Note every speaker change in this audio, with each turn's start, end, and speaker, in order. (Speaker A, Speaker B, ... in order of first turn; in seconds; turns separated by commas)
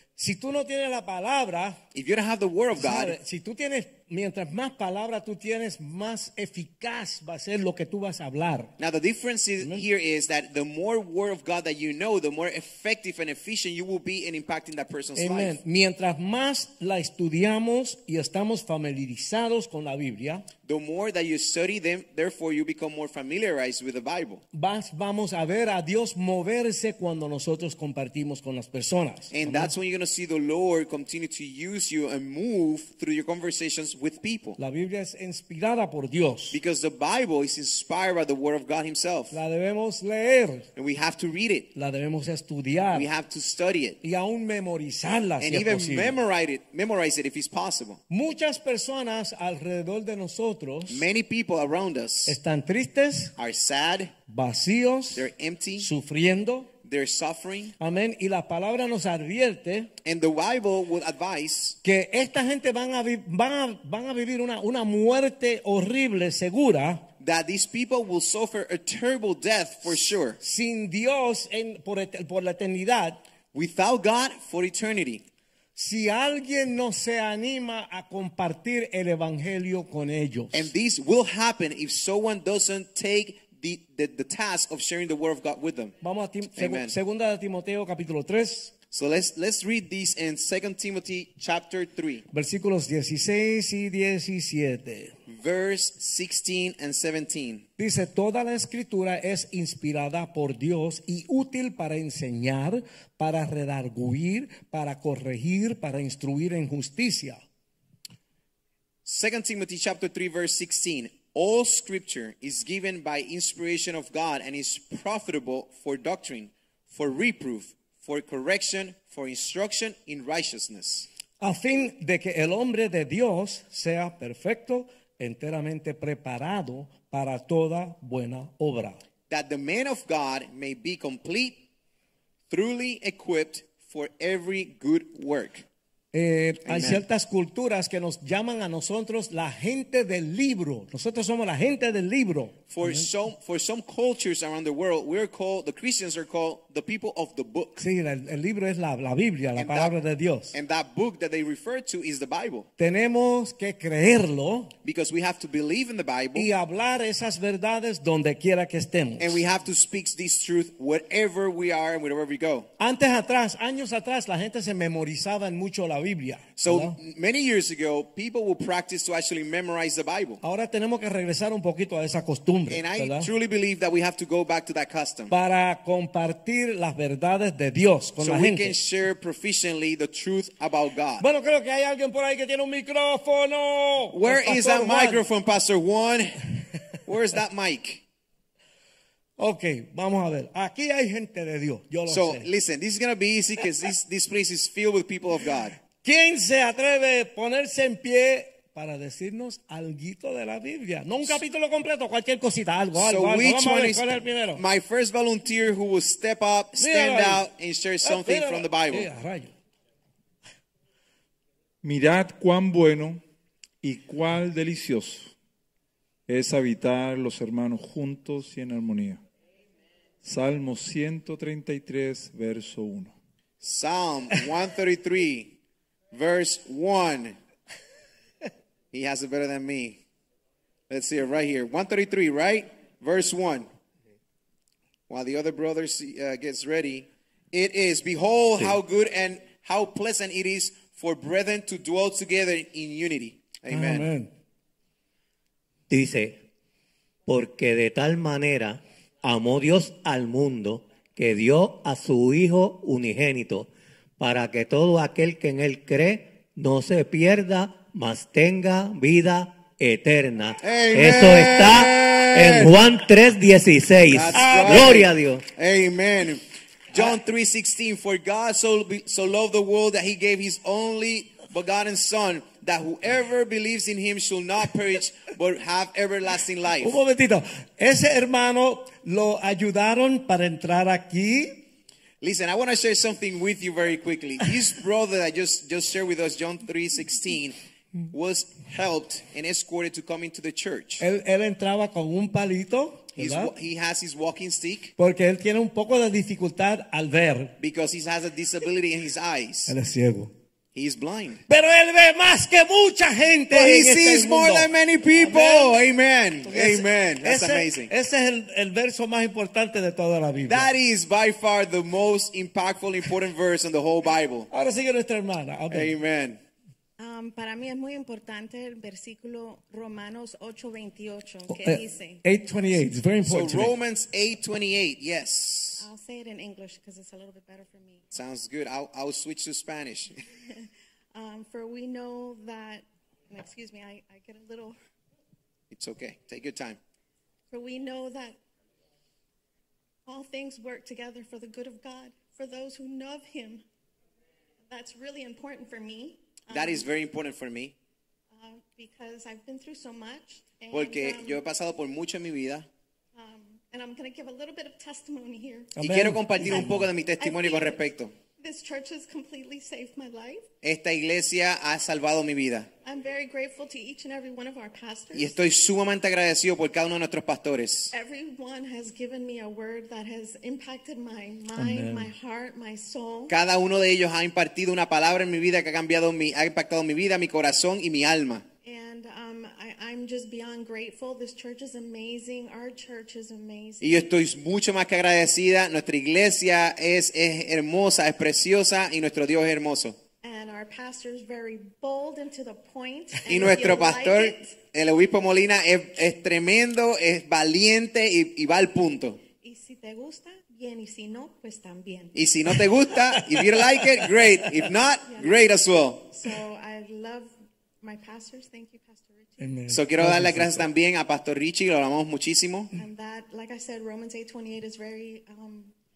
Speaker A: 0.2-1.8, Speaker B: 1.9-3.2, Speaker A: 2.8-8.7, Speaker B: 8.8-15.6, Speaker A: 15.2-20.5, Speaker B: 20.6-24.4, Speaker A: 24.5-29.7, Speaker B: 29.3-34.6, Speaker A: 34.6-36.6, Speaker B: 36.5-39.4, Speaker A: 39.3-40.7, Speaker B: 40.8-41.7, Speaker A: 41.8-43.1, Speaker B: 42.9-44.0, Speaker A: 44.0-46.2, Speaker B: 45.4-48.0, Speaker A: 48.1-51.0, Speaker B: 50.9-52.4, Speaker A: 52.3-53.3, Speaker B: 53.4-54.1, Speaker A: 54.3-56.7, Speaker B: 55.1-55.9, Speaker B: 56.8-57.8, Speaker A: 57.8-59.9, Speaker B: 60.0-61.8, Speaker A: 61.8-67.0, Speaker B: 67.2-70.4, Speaker A: 70.4-73.2, Speaker B: 73.5-75.2, Speaker A: 75.8-80.7, Speaker B: 80.5-86.0, Speaker A: 86.0-88.7, Speaker B: 86.5-87.0, Speaker B: 88.9-92.2, Speaker A: 92.3-95.2, Speaker B: 95.3-97.7, Speaker A: 97.8-107.4, Speaker B: 109.0-121.1, Speaker A: 121.4-129.0, Speaker B: 129.3-131.7, Speaker B: 132.5-135.7, Speaker A: 136.1-143.1, Speaker B: 136.7-137.0, Speaker B: 142.7-147.8, Speaker A: 147.8-150.5, Speaker B: 149.6-150.0, Speaker B: 150.5-152.7, Speaker A: 152.8-154.7, Speaker B: 154.8-156.5, Speaker A: 156.3-159.4, Speaker B: 159.2-162.7, Speaker A: 162.8-167.0, Speaker B: 166.6-170.4, Speaker A: 170.4-173.3, Speaker B: 172.7-175.3, Speaker A: 175.3-178.8, Speaker B: 178.2-181.2, Speaker A: 181.2-185.2, Speaker B: 184.1-186.4, Speaker B: 187.1-188.0, Speaker A: 189.4-192.5, Speaker B: 192.1-195.8, Speaker A: 196.0-204.6, Speaker B: 202.9-209.1, Speaker A: 206.8-207.5, Speaker A: 208.0-209.5, Speaker C: 211.8-213.2, Speaker C: 213.8-215.3, Speaker C: 216.3-219.2, Speaker C: 220.2-223.1, Speaker B: 223.6-225.6, Speaker B: 226.1-227.4, Speaker B: 228.9-230.0, Speaker B: 230.9-233.7, Speaker B: 235.1-244.1, Speaker A: 243.7-244.3, Speaker D: 245.9-246.4, Speaker D: 247.3-265.5, Speaker B: 260.6-262.8, Speaker B: 264.1-277.0, Speaker A: 264.3-265.0, Speaker A: 276.8-281.6, Speaker B: 282.2-287.6, Speaker B: 288.1-291.1, Speaker A: 291.0-293.5, Speaker B: 293.2-294.9, Speaker A: 295.0-297.5, Speaker B: 297.6-299.8, Speaker A: 299.7-300.3, Speaker B: 300.7-301.4, Speaker A: 301.5-305.8, Speaker B: 303.5-307.9, Speaker A: 306.5-310.7, Speaker B: 310.4-314.5, Speaker A: 314.5-315.9, Speaker B: 315.7-316.4, Speaker E: 317.0-322.2, Speaker A: 321.5-323.7, Speaker B: 323.2-325.9, Speaker E: 325.8-328.1, Speaker B: 328.1-330.2, Speaker E: 330.5-334.8, Speaker B: 335.7-336.8, Speaker E: 337.5-338.4, Speaker E: 340.1-343.6, Speaker E: 344.7-346.9, Speaker B: 346.5-347.8, Speaker E: 348.3-351.4, Speaker B: 350.7-352.7, Speaker E: 353.1-355.8, Speaker A: 355.8-356.9, Speaker B: 355.8-358.1, Speaker E: 356.5-360.5, Speaker B: 360.6-362.7, Speaker E: 362.8-365.4, Speaker B: 365.1-367.9, Speaker E: 367.9-373.4, Speaker A: 371.6-372.1, Speaker B: 373.3-378.4, Speaker E: 378.6-384.1, Speaker B: 383.8-390.0, Speaker E: 390.2-394.6, Speaker B: 393.2-399.2, Speaker E: 399.4-402.2, Speaker B: 402.1-406.1, Speaker A: 402.9-404.5, Speaker E: 405.1-405.5, Speaker E: 406.1-409.5, Speaker A: 409.4-410.7, Speaker B: 409.7-412.7, Speaker E: 412.8-415.7